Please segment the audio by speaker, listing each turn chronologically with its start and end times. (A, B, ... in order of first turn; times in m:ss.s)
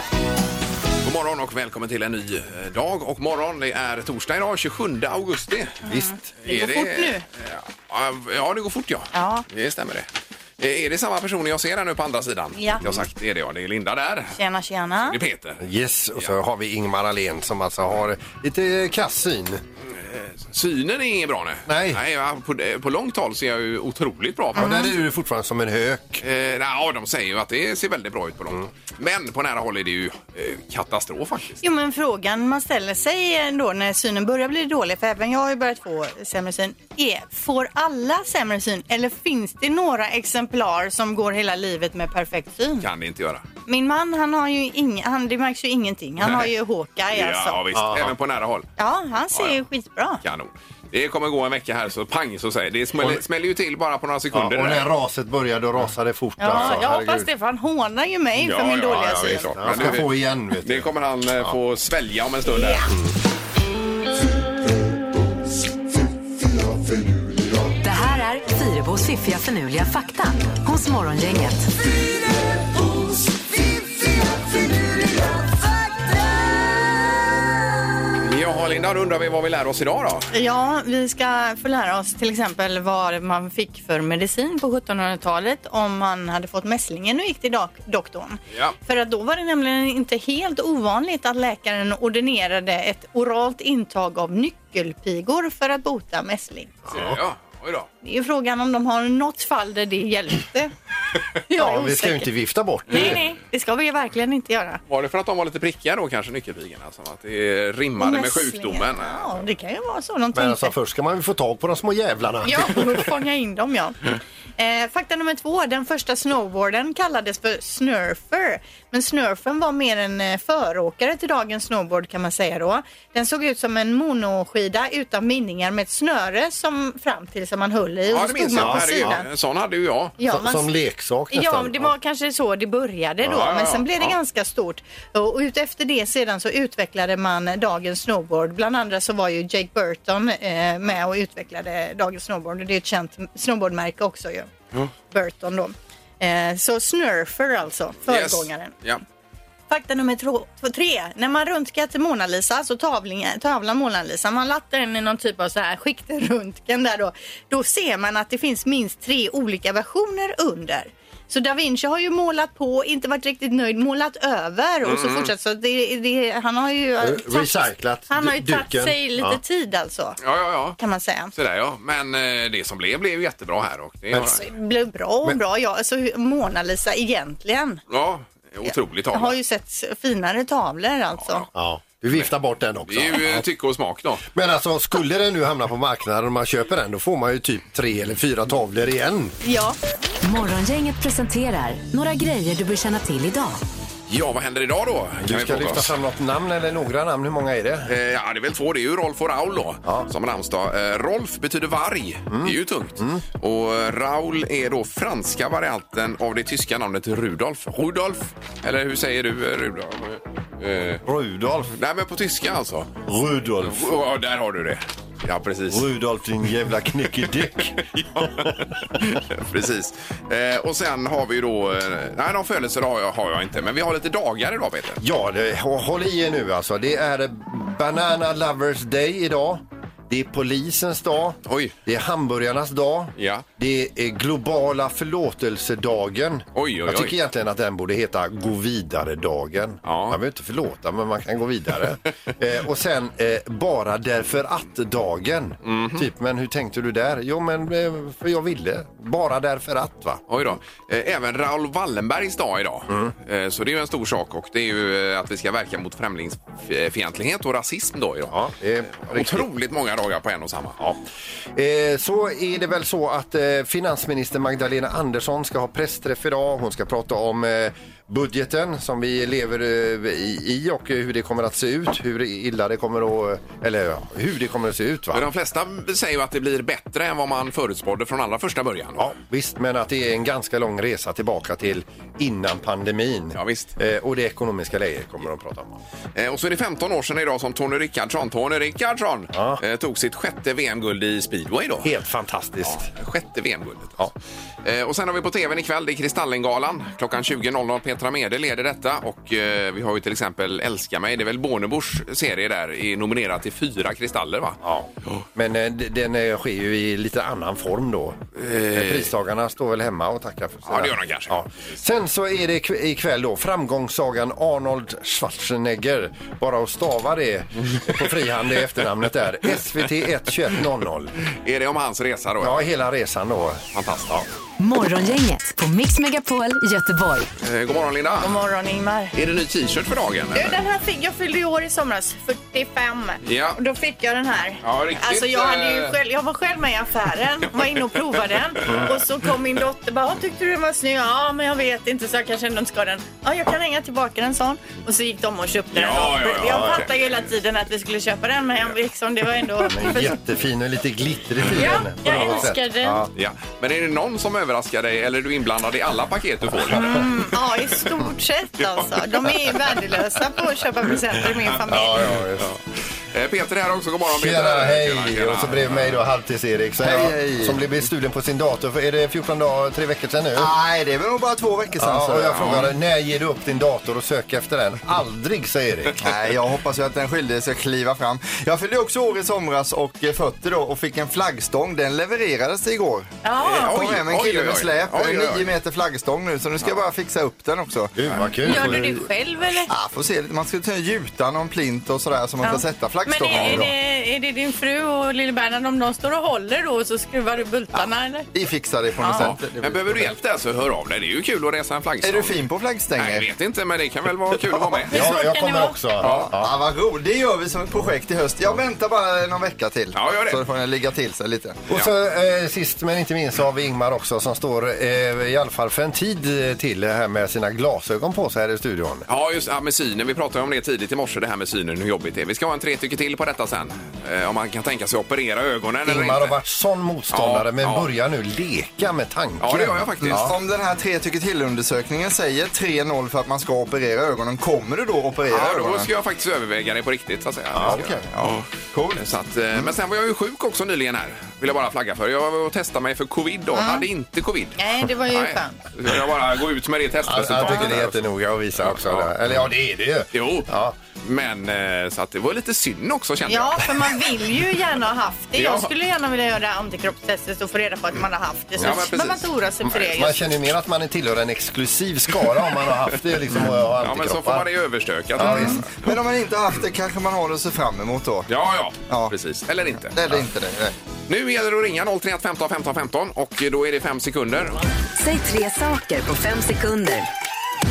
0:01.0-0:05.8 A
0:05.8-0:06.3 B
0:05.8-0:07.2 C
0:06.4-0:10.1 A
0:09.1-0:09.4 C
0:10.6-0:14.4 A
0:12.5-0:12.8 C
0:14.3-0:15.2 C
0:15.0-0:15.6 A
0:15.6-0:19.6 B
0:19.9-0:24.9 A
0:21.7-0:22.0 B
0:24.5-0:26.2 B
0:24.6-0:24.9 C
0:26.2-0:31.6 A
0:31.6-0:42.9 C
0:42.8-0:43.4 A
0:43.6-0:47.6 C
0:46.2-0:46.5 A
0:47.1-0:48.7 A
0:47.7-0:48.1 B
0:48.8-0:50.2 C
0:50.2-0:54.9 A
0:54.3-0:57.3 B
0:56.4-0:59.5 C
0:56.5-0:56.8 A
0:58.4-1:00.1 A
0:59.6-1:01.5 B
1:00.6-1:02.9 A
1:07.8-1:11.7 D
1:18.2-1:20.3 A
1:20.3-1:36.7 C
1:36.9-1:37.2 B
1:36.9-1:37.9 A
1:38.0-1:40.7 C
1:41.5-1:42.3 C
1:41.6-1:43.2 B
1:42.9-1:44.8 C
1:44.9-1:49.4 A
1:48.0-1:50.7 C
1:50.3-1:53.1 B
1:52.4-1:54.0 C
1:54.6-2:09.2 C
2:08.1-2:10.2 A
2:08.6-2:09.2 B
2:10.2-2:10.7 C
2:10.3-2:11.9 B
2:11.3-2:24.5 C
2:13.3-2:14.1 A
2:25.1-2:28.7 C
2:28.1-2:29.0 A
2:29.7-2:50.2 C
2:44.8-2:45.3 A
2:47.0-2:49.4 B
2:50.2-2:50.8 A
2:50.8-2:51.3 C
2:51.3-2:54.4 A
2:54.2-2:57.8 C
2:57.9-2:59.4 A
2:58.7-3:01.4 C
3:01.2-3:01.5 A
3:01.5-3:03.4 B
3:02.8-3:04.2 A
3:04.3-3:09.4 B
3:09.4-3:09.8 C
3:10.2-3:13.6 D
3:14.1-3:15.9 A
3:15.2-3:17.9 B
3:17.9-3:31.0 A
3:22.3-3:23.2 B
3:31.0-3:31.7 B
3:31.7-3:32.9 A
3:33.0-3:33.9 B
3:33.6-3:35.8 A
3:35.7-3:38.6 B
3:37.8-3:45.0 A
3:45.0-4:10.2 B
3:51.4-3:51.7 A
3:53.2-3:53.4 A
3:56.5-3:57.2 A
3:59.8-4:00.2 A
4:05.6-4:06.0 A
4:10.3-4:18.3 A
4:18.3-4:19.5 B
4:18.9-4:21.0 A
4:21.5-4:35.3 B
4:35.1-4:39.0 A
4:39.0-4:45.8 B
4:43.3-4:43.7 A
4:46.1-4:51.9 A
4:49.3-4:49.6 B
4:51.8-4:52.8 B
4:52.6-4:54.0 A
4:54.6-5:04.6 A
5:04.6-5:21.2 B
5:08.4-5:09.1 A
5:10.6-5:11.6 A
5:21.4-5:22.7 A
5:22.4-5:23.6 B
5:23.7-5:24.2 A
5:24.6-5:27.3 D
5:27.4-5:28.4 A
5:28.2-5:29.1 C
5:29.1-5:30.6 A
5:30.3-5:50.1 C
5:33.2-5:33.6 A
5:34.6-5:36.0 A
5:38.6-5:38.9 A
5:38.6-5:39.0 B
5:45.7-5:46.9 A
5:46.5-5:46.9 B
5:49.6-5:53.1 B
5:51.5-5:53.0 C
5:52.0-5:52.5 A
5:53.1-5:57.3 A
5:56.7-6:02.1 C
6:01.7-6:02.5 B
6:01.7-6:02.6 A
6:03.1-6:06.0 A
6:04.0-6:10.5 B
6:06.8-6:07.6 E
6:10.4-6:12.6 E
6:11.8-6:16.0 B
6:16.0-6:23.1 E
6:23.2-6:23.8 C
6:23.4-6:25.5 A
6:23.7-6:27.9 E
6:28.0-6:29.0 B
6:28.4-6:29.7 C
6:29.7-6:33.6 E
6:32.4-6:38.2 C
6:33.3-6:33.6 A
6:37.8-6:40.1 E
6:39.0-6:39.3 C
6:39.1-6:42.4 A
6:42.0-6:43.2 E
6:43.0-6:45.0 A
6:44.9-6:45.8 C
6:44.9-6:46.5 B
6:46.0-6:46.3 A
6:46.4-6:51.6 E
6:49.9-6:50.4 A
6:51.7-6:59.1 B
6:59.1-7:06.3 A
7:05.8-7:10.3 B
7:07.1-7:07.9 A
7:09.4-7:10.3 A
7:10.0-7:15.9 E
7:15.3-7:28.0 A
7:17.5-7:17.9 B
7:17.6-7:19.7 E
7:23.5-7:23.8 C
7:24.6-7:25.6 C
7:27.1-7:30.7 B
7:27.4-7:27.7 C
7:28.6-7:29.2 A
7:30.1-7:30.5 A
7:31.0-7:33.9 A
7:33.3-7:40.3 C
7:35.4-7:35.7 A
7:38.6-7:38.9 B
7:38.6-7:39.2 A
7:39.6-7:44.5 B
7:43.3-7:45.9 A
7:45.2-7:45.6 B
7:45.3-7:45.5 C
7:45.8-7:48.3 E
7:48.3-7:49.9 A
7:48.9-7:49.1 E
7:49.9-7:50.7 E
7:51.1-7:54.6 A
7:55.0-7:57.1 D